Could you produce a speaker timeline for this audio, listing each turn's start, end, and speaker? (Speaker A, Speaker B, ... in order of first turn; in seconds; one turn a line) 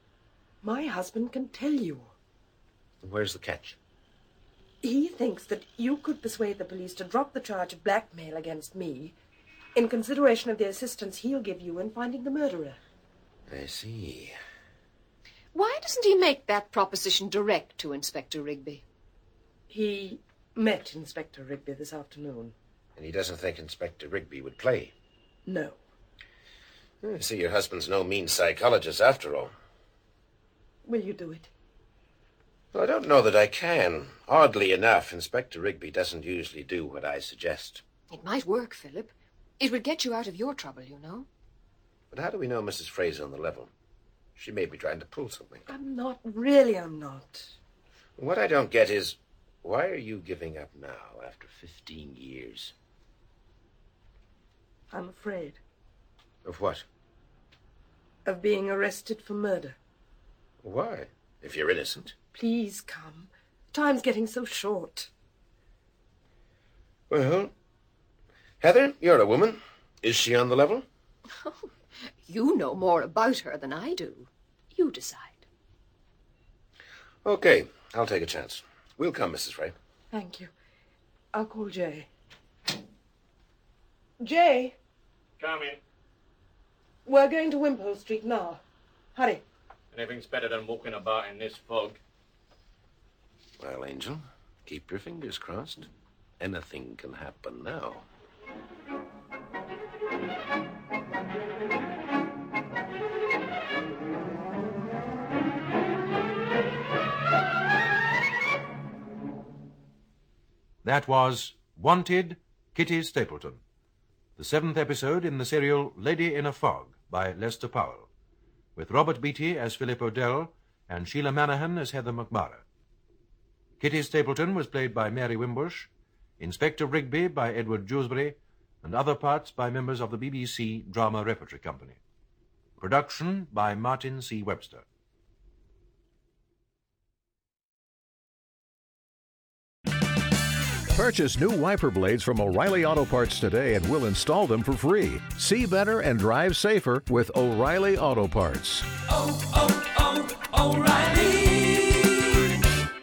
Speaker A: 0.6-2.1
Speaker B: 3.0-3.8
Speaker A: 4.8-9.2
Speaker A: 9.8-12.8
Speaker B: 13.5-14.4
Speaker C: 15.5-18.8
Speaker A: 19.7-22.5
Speaker B: 23.0-24.9
Speaker A: 25.5-25.8
Speaker B: 27.0-29.5
Speaker A: 30.9-31.5
Speaker B: 32.7-37.8
Speaker C: 38.1-41.3
Speaker B: 42.1-43.7
Speaker B: 44.4-45.6
Speaker A: 45.7-47.5
Speaker B: 48.2-52.7
Speaker A: 54.9-55.6
Speaker B: 56.4-56.9
Speaker A: 58.2-59.8
Speaker B: 60.6-62.1
Speaker A: 62.3-65.1
Speaker B: 67.1-67.5
Speaker B: 68.6-70.8
Speaker C: 72.2-75.5
Speaker B: 77.2-79.8
Speaker A: 80.1-80.5
Speaker A: 81.3-82.1
Speaker A: 84.2-84.8
Speaker D: 85.4-85.8
Speaker A: 87.1-88.6
Speaker A: 89.2-89.4
Speaker D: 89.9-92.0
Speaker B: 93.6-98.1
Speaker E: 110.8-113.6
Speaker E: 114.4-118.1
Speaker E: 118.8-122.6
Speaker E: 123.8-132.0
Speaker E: 132.8-134.8
Speaker F: 140.9-152.4